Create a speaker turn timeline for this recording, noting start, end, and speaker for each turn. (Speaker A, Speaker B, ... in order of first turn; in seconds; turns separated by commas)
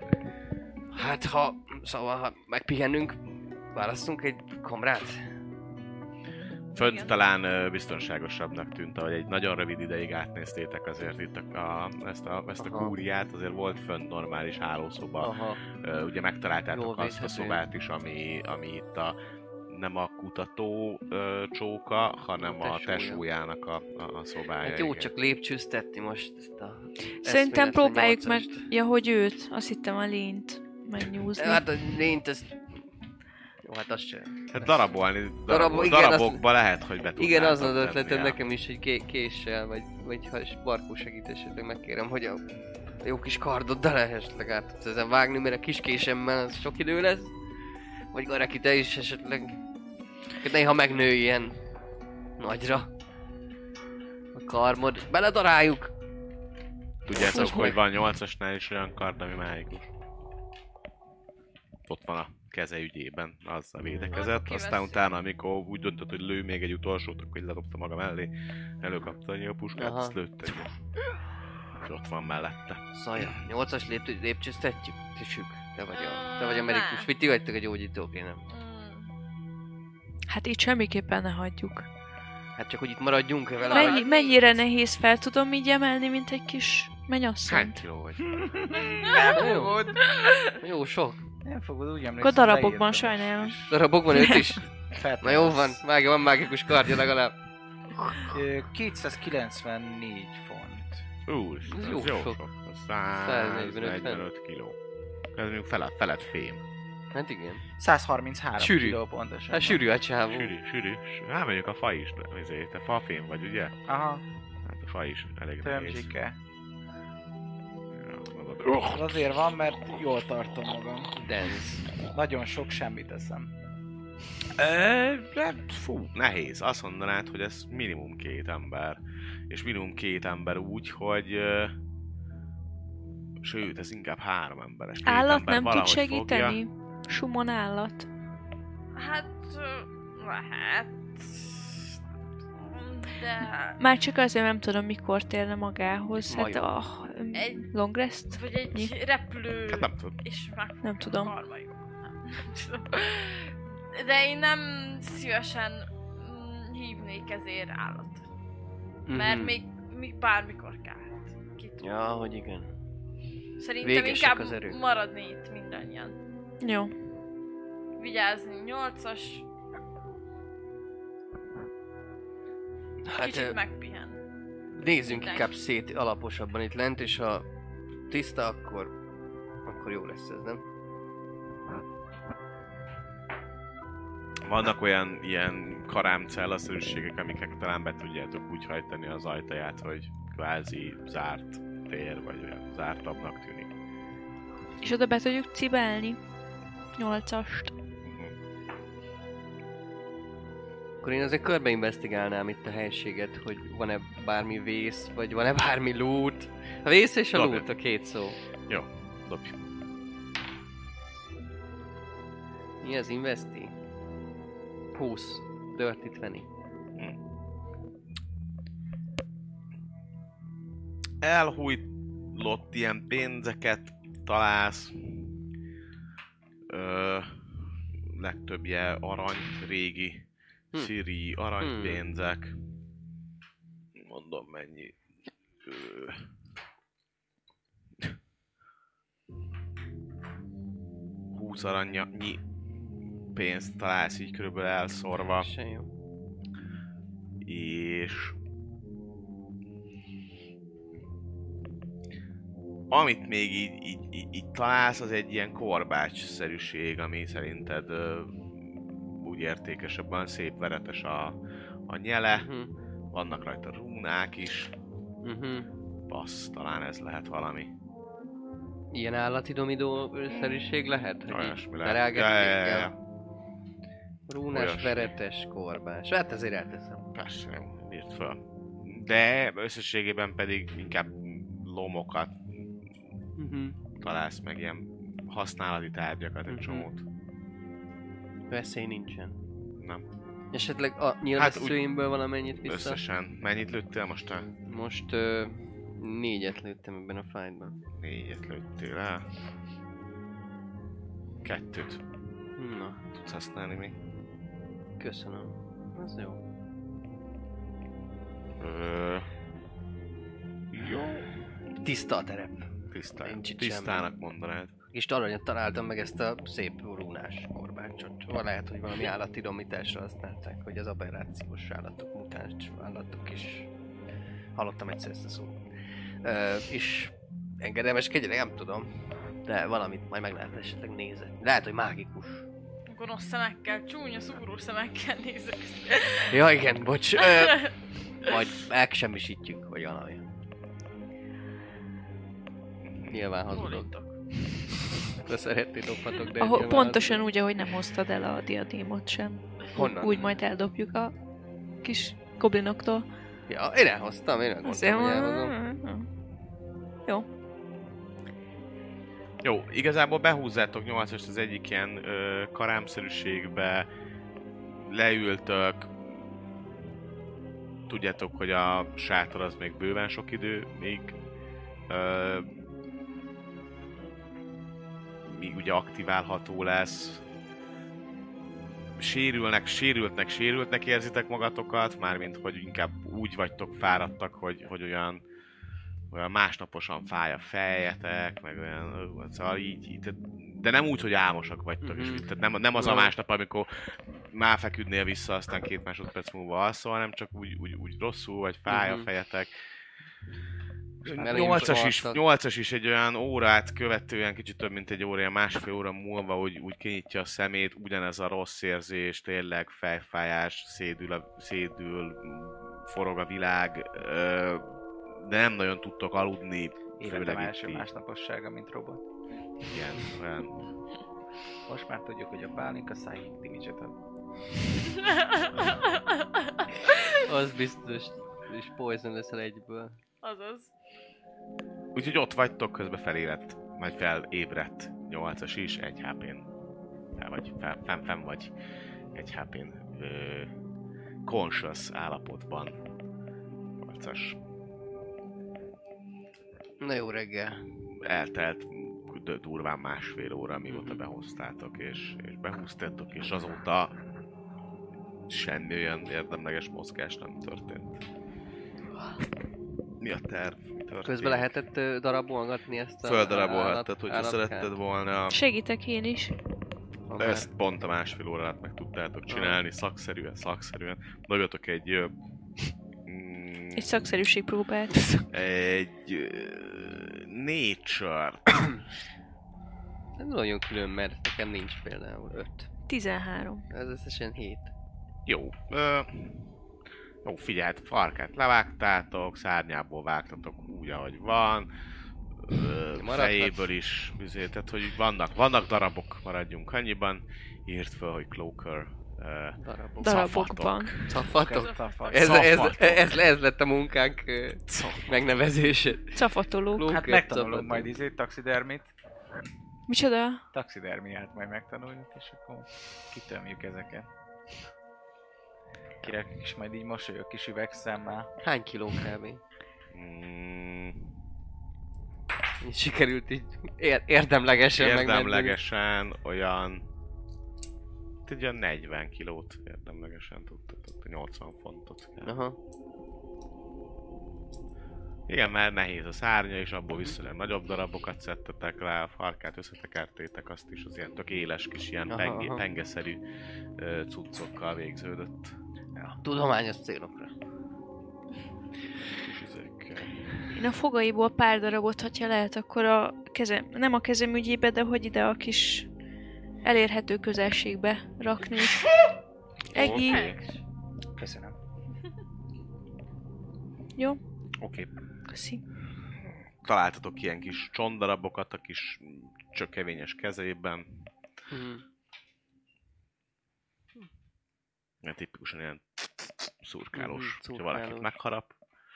Speaker A: 0.9-5.3, Speaker B: 6.7-19.2, Speaker A: 12.6-13.0, Speaker A: 15.2-15.6, Speaker A: 16.7-17.6, Speaker B: 19.7-25.1, Speaker A: 22.4-23.2, Speaker A: 24.6-28.7, Speaker C: 27.2-31.6, Speaker A: 31.4-32.8, Speaker A: 33.6-34.5, Speaker B: 34.5-38.4, Speaker A: 35.5-36.5, Speaker A: 37.2-42.4, Speaker A: 43.0-47.4, Speaker A: 48.1-49.6, Speaker A: 50.4-51.5, Speaker A: 52.4-52.9, Speaker A: 54.4-55.9, Speaker B: 57.1-59.9, Speaker A: 57.2-57.7, Speaker C: 57.3-57.8, Speaker B: 61.9-70.8, Speaker D: 64.1-65.0, Speaker A: 69.8-70.2, Speaker B: 71.8-73.4, Speaker A: 72.9-78.4, Speaker D: 75.9-77.1, Speaker D: 78.5-79.1, Speaker C: 80.3-81.9, Speaker A: 82.6-84.0, Speaker D: 83.6-84.4, Speaker C: 83.7-87.8, Speaker B: 87.5-88.4, Speaker E: 88.3-90.0, Speaker D: 89.0-90.6, Speaker A: 89.3-90.0, Speaker A: 90.6-91.2, Speaker E: 91.4-93.9, Speaker C: 92.2-93.5, Speaker A: 93.7-94.7, Speaker C: 94.1-94.6, Speaker E: 94.9-95.8, Speaker A: 95.2-97.3, Speaker A: 97.9-98.4, Speaker E: 98.3-101.0, Speaker B: 101.3-104.8, Speaker A: 101.7-102.4, Speaker A: 103.2-104.3, Speaker B: 105.4-106.6, Speaker A: 107.1-107.6, Speaker E: 107.8-109.8, Speaker A: 108.6-110.5, Speaker B: 110.3-113.8, Speaker E: 113.9-114.2, Speaker B: 114.7-116.1, Speaker E: 115.6-116.4, Speaker B: 118.0-119.3, Speaker E: 118.8-121.5, Speaker A: 121.2-121.8, Speaker E: 122.1-123.5, Speaker E: 124.6-126.1, Speaker B: 126.1-131.8, Speaker B: 133.4-136.6, Speaker C: 135.1-138.1, Speaker D: 138.9-141.8, Speaker D: 142.6-143.8, Speaker C: 143.8-148.9, Speaker A: 146.3-146.6, Speaker D: 147.3-147.7, Speaker D: 148.3-158.3, Speaker B: 149.7-150.2, Speaker C: 150.8-151.3, Speaker A: 159.1-159.6, Speaker D: 159.1-161.9, Speaker A: 161.8-162.7, Speaker D: 163.6-166.2, Speaker A: 163.8-164.8, Speaker C: 166.6-166.9, Speaker D: 168.0-169.5, Speaker A: 173.1-173.6, Speaker D: 173.2-174.2, Speaker A: 174.8-177.4, Speaker D: 175.1-175.5, Speaker A: 178.1-178.9, Speaker A: 179.7-180.6, Speaker B: 184.5-193.7, Speaker C: 194.8-196.2, Speaker C: 197.0-197.7, Speaker B: 198.1-198.3, Speaker A: 201.0-208.4, Speaker B: 207.3-207.7, Speaker B: 208.7-209.6, Speaker A: 212.8-213.7, Speaker A: 214.9-216.5, Speaker B: 221.2-225.3, Speaker B: 226.7-227.3, Speaker B: 228.2-230.2, Speaker B: 230.8-232.5, Speaker A: 231.6-232.0, Speaker B: 234.0-235.0, Speaker B: 235.6-236.2, Speaker B: 241.3-242.4, Speaker B: 243.3-245.5, Speaker A: 245.4-245.9, Speaker B: 247.4-248.4, Speaker B: 252.9-261.4, Speaker B: 261.9-262.5, Speaker A: 262.3-262.7, Speaker B: 263.1-264.7, Speaker A: 265.2-265.7, Speaker B: 266.1-267.7, Speaker A: 268.9-272.9, Speaker B: 271.3-272.9, Speaker A: 274.3-277.1, Speaker B: 274.5-275.1, Speaker B: 277.1-282.4, Speaker A: 283.4-283.8, Speaker B: 284.0-287.0, Speaker A: 286.5-286.9, Speaker A: 288.5-289.4, Speaker B: 289.8-290.1, Speaker A: 290.5-293.0, Speaker B: 291.4-291.8, Speaker B: 292.7-294.5, Speaker A: 294.7-297.8, Speaker B: 298.0-299.3, Speaker B: 301.4-302.0, Speaker A: 302.6-303.0, Speaker B: 303.2-304.0, Speaker A: 305.0-306.4, Speaker B: 308.6-309.3, Speaker B: 310.7-311.3, Speaker A: 311.8-312.7, Speaker B: 312.9-314.7, Speaker A: 313.2-314.1, Speaker A: 314.9-323.7, Speaker A: 324.6-325.6, Speaker A: 326.2-332.5, Speaker D: 332.9-336.4, Speaker A: 336.3-340.2, Speaker D: 337.2-337.7, Speaker B: 342.9-343.3, Speaker A: 343.1-347.2, Speaker D: 343.5-344.2, Speaker C: 346.4-351.1, Speaker A: 349.8-350.4, Speaker C: 351.8-353.1, Speaker A: 353.5-355.6, Speaker C: 354.6-356.1, Speaker B: 359.4-363.9, Speaker B: 364.9-366.0, Speaker B: 367.9-371.2, Speaker B: 371.9-372.5, Speaker B: 375.3-377.2, Speaker B: 379.0-385.2, Speaker B: 386.1-399.5, Speaker A: 391.8-393.1, Speaker A: 398.7-399.1, Speaker B: 401.0-417.9, Speaker A: 401.1-402.2, Speaker E: 401.3-401.8, Speaker E: 417.0-419.0, Speaker B: 419.6-420.7, Speaker E: 421.7-423.9, Speaker D: 425.0-427.2, Speaker A: 427.2-430.0, Speaker D: 430.2-430.7, Speaker B: 431.9-436.5, Speaker B: 437.2-438.5, Speaker B: 439.1-440.5, Speaker B: 441.2-442.8, Speaker B: 443.8-444.4, Speaker A: 446.8-447.6, Speaker B: 448.0-454.0, Speaker A: 450.7-451.0, Speaker B: 455.3-458.0, Speaker B: 460.0-461.5, Speaker A: 461.1-464.7, Speaker B: 463.0-465.4, Speaker C: 465.3-466.3, Speaker A: 467.1-467.5, Speaker B: 467.2-472.1, Speaker A: 469.3-469.6, Speaker B: 473.1-473.9, Speaker C: 473.8-474.9, Speaker B: 475.3-478.8, Speaker A: 480.2-482.7, Speaker C: 482.9-483.7, Speaker A: 483.7-484.7, Speaker B: 485.3-486.5, Speaker B: 487.2-491.7, Speaker B: 492.4-501.2, Speaker A: 493.0-493.7, Speaker A: 499.6-500.3, Speaker C: 500.0-500.9, Speaker A: 501.1-506.2, Speaker E: 501.2-502.7, Speaker D: 501.6-502.1, Speaker B: 502.2-503.2, Speaker B: 504.7-505.1, Speaker C: 506.2-506.9, Speaker A: 506.8-507.9, Speaker E: 506.9-508.9, Speaker C: 509.9-510.4, Speaker E: 510.5-514.1, Speaker E: 516.0-518.3, Speaker A: 518.4-519.4, Speaker B: 519.9-521.0, Speaker A: 522.6-525.6, Speaker B: 524.8-526.9, Speaker B: 528.3-532.3, Speaker A: 532.2-532.6, Speaker B: 535.3-543.2, Speaker A: 542.1-542.6, Speaker B: 543.8-545.6, Speaker A: 546.0-547.3, Speaker B: 549.2-550.3, Speaker C: 550.5-555.9, Speaker C: 556.6-558.9, Speaker B: 559.7-560.4, Speaker C: 559.7-560.4, Speaker D: 559.8-560.6, Speaker E: 561.2-561.6, Speaker B: 564.6-564.9, Speaker C: 565.3-565.6, Speaker B: 566.6-570.9, Speaker A: 571.5-571.8, Speaker B: 575.0-578.5, Speaker A: 576.9-578.1